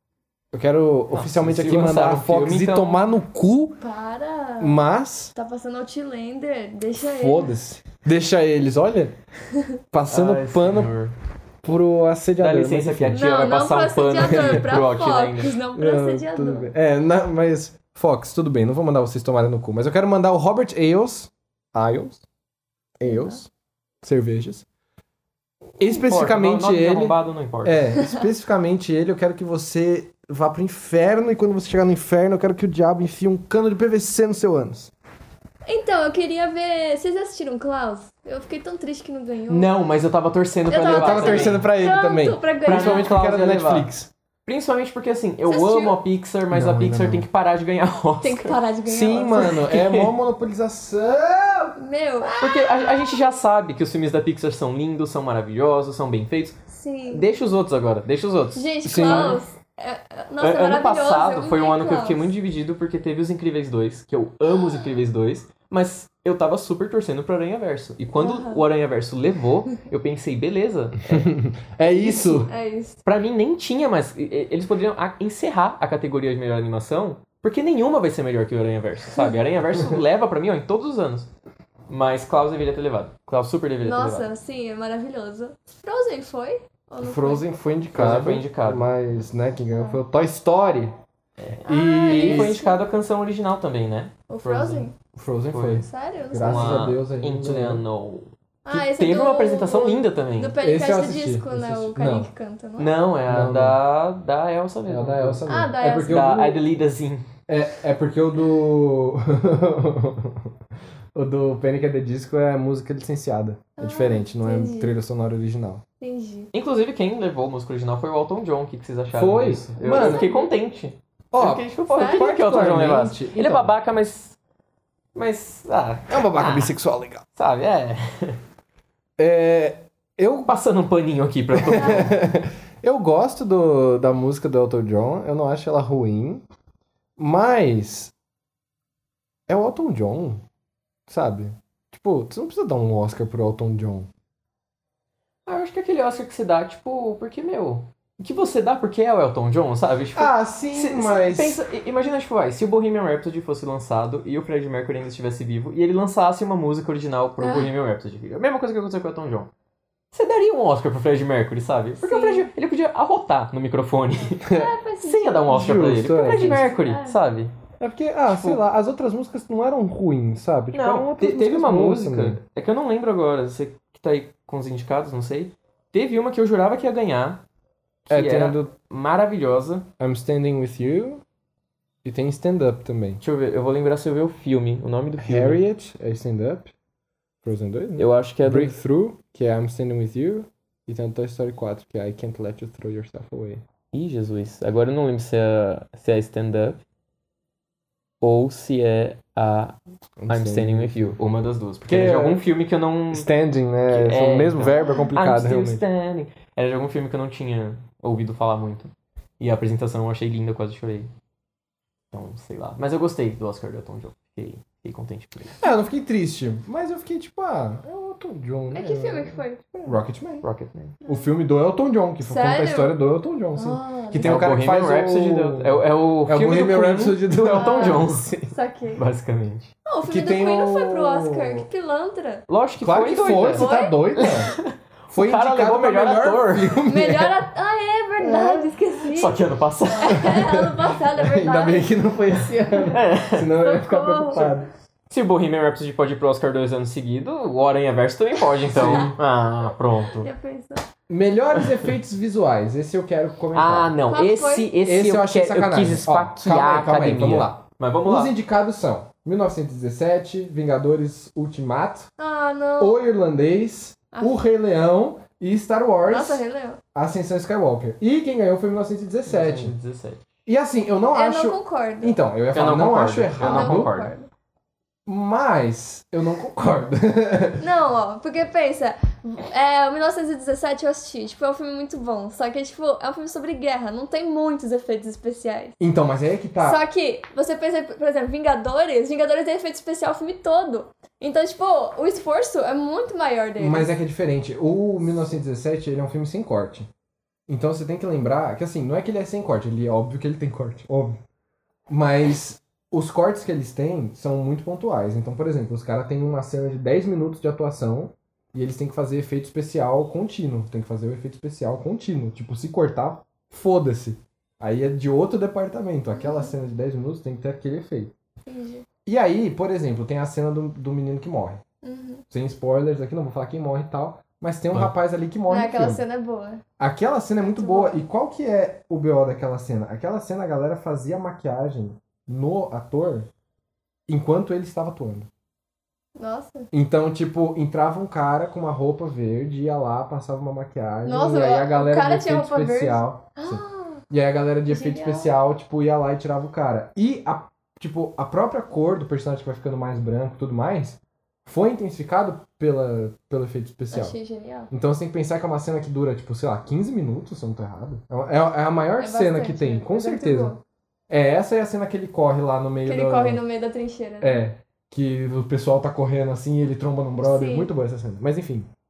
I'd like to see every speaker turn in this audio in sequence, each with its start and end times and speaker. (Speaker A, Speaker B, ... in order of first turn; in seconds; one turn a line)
Speaker A: 0.5-3.8
Speaker B: 1.1-3.0
Speaker C: 3.8-4.8
Speaker A: 4.6-5.3
Speaker C: 5.3-7.5
Speaker A: 7.0-9.2
Speaker C: 9.5-9.8
Speaker A: 9.9-10.9
Speaker B: 10.1-11.2
Speaker A: 11.6-13.2
Speaker B: 12.4-15.5
Speaker C: 13.1-16.7
Speaker A: 14.2-14.8
Speaker A: 15.7-22.2
Speaker A: 23.0-23.5
Speaker C: 23.0-23.4
Speaker A: 24.0-24.7
Speaker A: 25.8-34.9
Speaker B: 25.9-27.9
Speaker C: 35.7-39.7
Speaker B: 39.5-41.7
Speaker C: 40.7-43.1
Speaker A: 40.8-44.1
Speaker B: 42.6-43.9
Speaker B: 44.5-48.6
Speaker C: 45.5-46.0
Speaker A: 46.5-47.3
Speaker C: 48.2-49.6
Speaker A: 48.9-51.8
Speaker B: 49.3-50.1
Speaker C: 51.8-53.2
Speaker B: 52.4-56.6
Speaker C: 56.7-57.3
Speaker B: 57.1-59.4
Speaker C: 58.5-62.3
Speaker A: 58.8-59.4
Speaker B: 60.4-71.3
Speaker C: 68.2-68.6
Speaker A: 71.1-72.5
Speaker C: 71.9-73.0
Speaker B: 73.0-81.3
Speaker B: 81.9-84.3
Speaker C: 83.8-87.5
Speaker A: 87.0-90.9
Speaker B: 87.9-88.9
Speaker C: 89.7-90.0
Speaker B: 91.4-94.9
Speaker C: 91.7-92.8
Speaker A: 91.7-92.6
Speaker C: 94.3-95.0
Speaker A: 95.1-97.8
Speaker B: 95.5-95.8
Speaker C: 95.8-96.9
Speaker B: 96.4-100.5
Speaker C: 98.7-103.0
Speaker A: 100.6-102.3
Speaker B: 102.8-105.5
Speaker A: 103.3-103.8
Speaker A: 104.9-106.6
Speaker C: 105.5-106.5
Speaker B: 106.0-107.3
Speaker A: 107.5-110.5
Speaker A: 111.2-115.8
Speaker C: 113.8-114.9
Speaker C: 116.0-116.5
Speaker B: 116.5-124.4
Speaker A: 119.1-120.3
Speaker C: 119.8-120.5
Speaker A: 121.3-123.7
Speaker C: 121.9-122.3
Speaker B: 125.2-126.7
Speaker A: 126.1-127.2
Speaker B: 127.3-128.4
Speaker A: 129.2-130.5
Speaker B: 130.5-132.1
Speaker A: 131.5-136.4
Speaker C: 131.7-132.1
Speaker A: 137.2-138.1
Speaker A: 139.5-140.4
Speaker A: 141.1-144.1
Speaker B: 145.5-159.5
Speaker A: 150.2-151.6
Speaker C: 157.4-157.7
Speaker B: 160.1-167.5
Speaker C: 162.0-162.5
Speaker C: 164.3-167.2
Speaker A: 164.4-164.7
Speaker A: 165.5-166.7
Speaker A: 167.8-172.4
Speaker B: 168.3-168.6
Speaker B: 170.7-177.4
Speaker B: 178.1-179.9
Speaker A: 178.1-178.7
Speaker A: 180.0-181.2
Speaker A: 182.0-183.2
Speaker B: 183.2-185.6
Speaker A: 185.2-186.7
Speaker A: 187.4-193.6
Speaker B: 188.0-188.8
Speaker B: 193.9-196.8
Speaker B: 198.2-199.8
Speaker A: 200.2-201.2
Speaker B: 200.3-203.3
Speaker A: 201.9-202.4
Speaker A: 203.1-205.8
Speaker B: 203.9-211.1
Speaker C: 204.7-205.1
Speaker B: 212.1-215.6
Speaker A: 215.6-220.4
Speaker C: 218.7-220.0
Speaker B: 220.4-221.0
Speaker C: 221.0-221.3
Speaker A: 221.1-228.5
Speaker C: 222.2-222.9
Speaker C: 223.6-224.6
Speaker B: 224.2-228.3
Speaker C: 227.5-229.0
Speaker B: 229.0-229.7
Speaker C: 229.9-232.5
Speaker A: 230.0-231.7
Speaker B: 232.5-236.8
Speaker A: 232.8-234.6
Speaker C: 233.2-234.3
Speaker A: 235.1-237.4
Speaker C: 236.9-239.4
Speaker A: 238.2-238.7
Speaker B: 239.1-240.4
Speaker C: 240.0-242.0
Speaker A: 240.1-244.7
Speaker B: 242.9-243.5
Speaker C: 243.6-244.5
Speaker B: 245.1-250.3
Speaker A: 248.7-249.2
Speaker C: 248.8-249.1
Speaker C: 250.1-250.9
Speaker A: 251.1-254.0
Speaker B: 251.6-251.9
Speaker B: 253.5-258.3
Speaker C: 254.1-254.7
Speaker A: 254.8-262.1
Speaker C: 262.2-263.0
Speaker A: 262.8-266.4
Speaker C: 264.1-264.4
Speaker C: 266.1-266.8
Speaker A: 266.9-269.7
Speaker B: 269.3-270.2
Speaker A: 270.5-273.9
Speaker C: 271.1-272.2
Speaker B: 272.5-274.1
Speaker C: 273.4-274.3
Speaker A: 275.1-277.7
Speaker C: 277.6-285.8
Speaker A: 285.8-286.8
Speaker C: 286.6-293.9
Speaker A: 293.6-296.9
Speaker A: 297.5-301.2
Speaker A: 301.9-318.1
Speaker C: 316.2-316.5
Speaker C: 318.5-318.9
Speaker A: 319.1-321.6
Speaker C: 321.8-322.2
Speaker A: 322.3-326.0
Speaker C: 325.5-326.6
Speaker A: 326.8-333.3
Speaker C: 327.4-328.0
Speaker A: 334.1-335.3
Speaker C: 336.2-336.7
Speaker A: 336.7-354.2
Speaker C: 341.1-344.0
Speaker C: 344.7-345.3
Speaker C: 353.9-354.7
Speaker A: 354.7-360.5
Speaker C: 359.0-360.6
Speaker A: 361.1-363.4
Speaker C: 362.9-364.4
Speaker A: 364.2-368.7
Speaker C: 367.2-367.7